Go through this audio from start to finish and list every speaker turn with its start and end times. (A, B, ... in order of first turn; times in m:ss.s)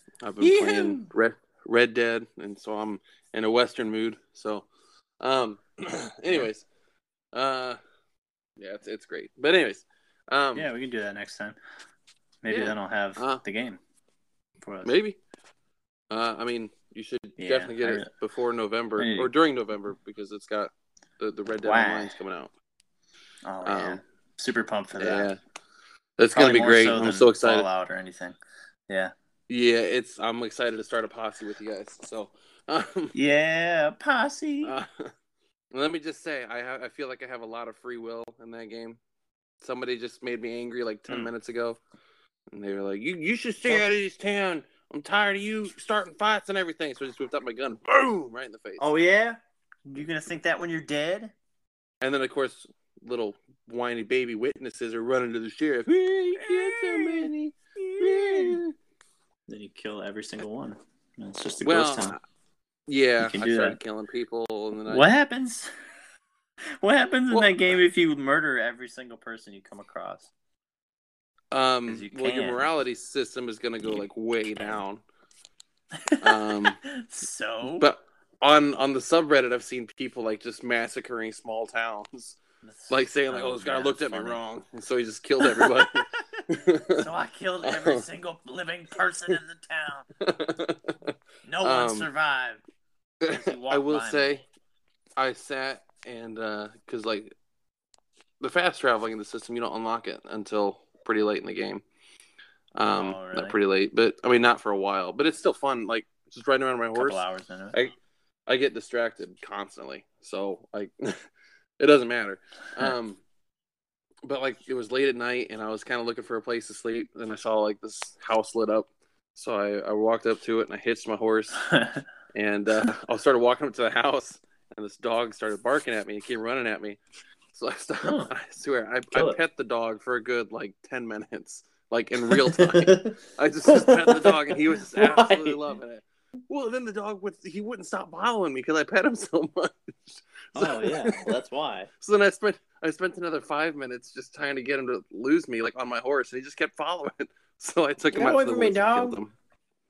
0:00.2-0:04.7 A
0:00.4-0:01.1 B
0:05.2-0:06.6 A
0:07.3-0:07.8 A
0:08.6-0:10.7 A
0:10.5-0:11.6 B
0:12.4-0:13.8 B
0:12.5-0:13.4 A
0:14.6-0:14.9 B
0:14.8-0:15.2 A
0:16.1-0:22.5 A
0:17.4-0:18.1 B
0:19.0-0:19.3 B
0:21.6-0:22.2 B
0:23.4-0:25.3 B
0:23.6-0:24.0 A
0:25.0-0:25.4 A
0:26.2-0:27.7 A
0:26.3-0:29.1 B
0:29.5-0:33.1 A
0:33.1-0:34.7 B
0:34.6-0:35.1 A
0:35.7-0:39.0 A
0:39.6-0:41.8 A
0:42.5-0:48.8 A
0:48.8-0:51.3 B
0:52.0-0:58.7 A
0:56.4-0:58.6 B
0:59.5-1:02.1 B
1:01.6-1:02.2 A
1:02.9-1:05.1 A
1:03.2-1:03.8 B
1:04.9-1:05.7 B
1:06.8-1:10.3 B
1:07.3-1:07.8 A
1:11.5-1:15.0 A
1:11.8-1:12.7 B
1:13.9-1:14.8 B
1:15.9-1:17.9 B
1:16.2-1:16.8 A
1:17.8-1:22.4 A
1:22.6-1:24.4 B
1:22.9-1:27.1 A
1:25.4-1:30.1 B
1:27.6-1:28.0 A
1:30.2-1:32.1 A
1:31.4-1:32.6 B
1:33.2-1:34.4 A
1:33.3-1:34.4 B
1:35.2-1:37.3 A
1:38.4-1:41.8 A
1:42.8-1:47.9 A
1:42.9-1:43.6 B
1:46.9-1:47.7 B
1:48.5-1:51.2 A
1:51.8-1:53.2 A
1:54.2-2:01.6 A
2:01.6-2:02.0 B
2:02.3-2:07.0 A
2:07.5-2:21.4 A
2:08.0-2:08.3 B
2:09.1-2:09.4 B
2:12.3-2:15.6 B
2:20.5-2:21.9 B
2:22.0-2:29.3 A
2:28.1-2:29.2 B